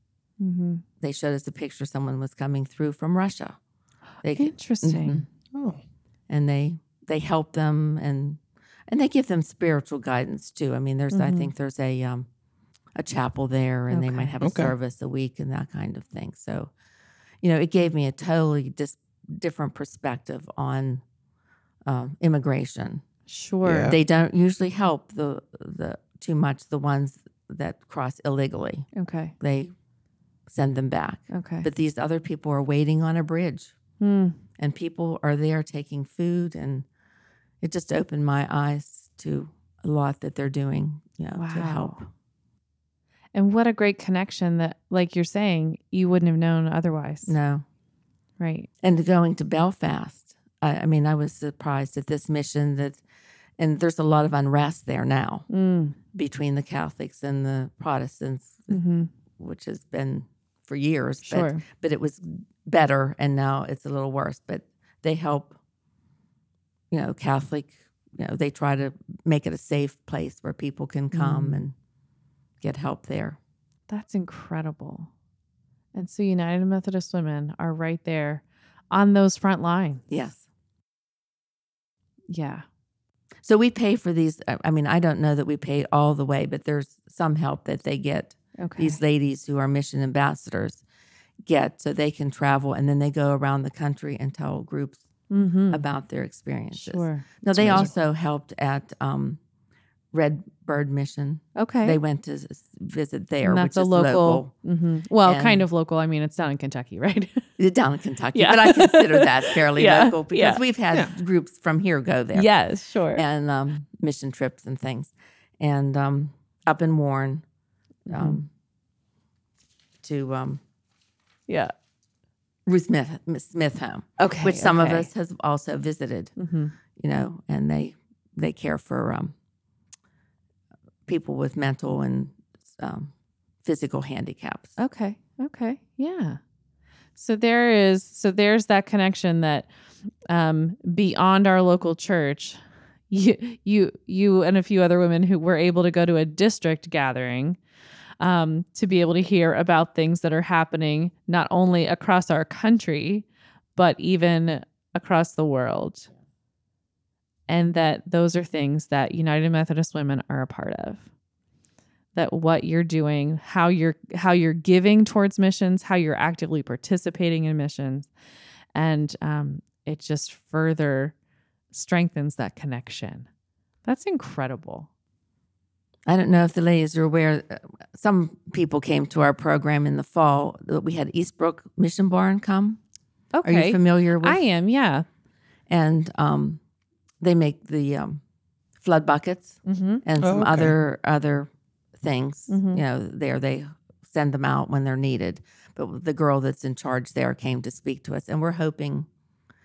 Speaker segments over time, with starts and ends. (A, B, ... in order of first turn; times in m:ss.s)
0:00.4-0:00.8 A
0:01.0-0:03.6 B
0:04.2-0:05.2 B
0:04.3-0:05.2 A
0:05.5-0:05.8 C
0:06.3-0:12.3 B
0:11.1-0:11.5 A
0:12.9-0:16.7 B
0:13.9-0:14.3 A
0:14.4-0:14.7 C
0:17.4-0:21.0 B
0:21.8-0:23.0 B
0:23.3-0:23.9 A
0:23.6-0:24.0 C
0:23.8-0:28.9 B
0:28.9-0:29.3 A
0:29.4-0:29.7 B
0:30.5-0:33.7 B
0:31.3-0:31.7 A
0:34.0-0:34.4 A
0:34.6-0:36.8 B
0:37.6-0:42.1 B
0:41.3-0:42.0 A
0:43.3-0:47.3 A
0:47.2-0:47.6 B
0:48.4-0:48.7 A
0:48.8-0:53.0 B
0:53.6-0:55.5 B
0:55.5-0:56.0 A
0:56.1-0:58.8 B
0:58.7-0:59.1 A
0:59.3-1:05.6 B
1:01.2-1:01.6 A
1:06.9-1:11.7 B
1:11.1-1:11.6 A
1:12.6-1:13.4 B
1:13.9-1:15.1 A
1:15.9-1:20.0 A
1:20.1-1:20.5 B
1:22.3-1:22.6 A
1:23.4-1:30.8 B
1:28.6-1:29.0 A
1:31.4-1:35.1 B
1:35.3-1:35.8 A
1:35.7-1:39.4 B
1:36.7-1:37.9 A
1:37.5-1:37.9 C
1:40.1-1:44.5 B
1:41.5-1:42.0 A
1:43.4-1:47.4 A
1:45.2-1:45.6 B
1:47.6-1:52.5 B
1:48.3-1:50.6 A
1:52.3-1:53.2 A
1:53.1-1:57.4 B
1:58.1-1:58.4 A
1:58.1-1:58.5 B
2:00.0-2:00.6 B
2:01.5-2:01.7 A
2:02.6-2:06.3 B
2:04.2-2:05.1 A
2:06.4-2:06.7 A
2:07.0-2:09.3 B
2:11.0-2:13.1 B
2:13.6-2:14.8 B
2:14.8-2:16.4 A
2:17.2-2:19.7 A
2:20.3-2:27.6 A
2:28.2-2:36.1 A
2:37.5-2:41.0 A
2:42.1-2:48.1 A
2:48.7-2:51.1 A
2:51.7-2:53.3 A
2:53.8-2:54.9 A
2:56.0-3:02.8 B
3:03.3-3:05.0 A
3:03.4-3:04.4 B
3:05.7-3:06.6 B
3:07.2-3:08.2 B
3:08.8-3:19.1 B
3:09.6-3:10.0 A
3:10.2-3:10.7 C
3:12.5-3:12.8 A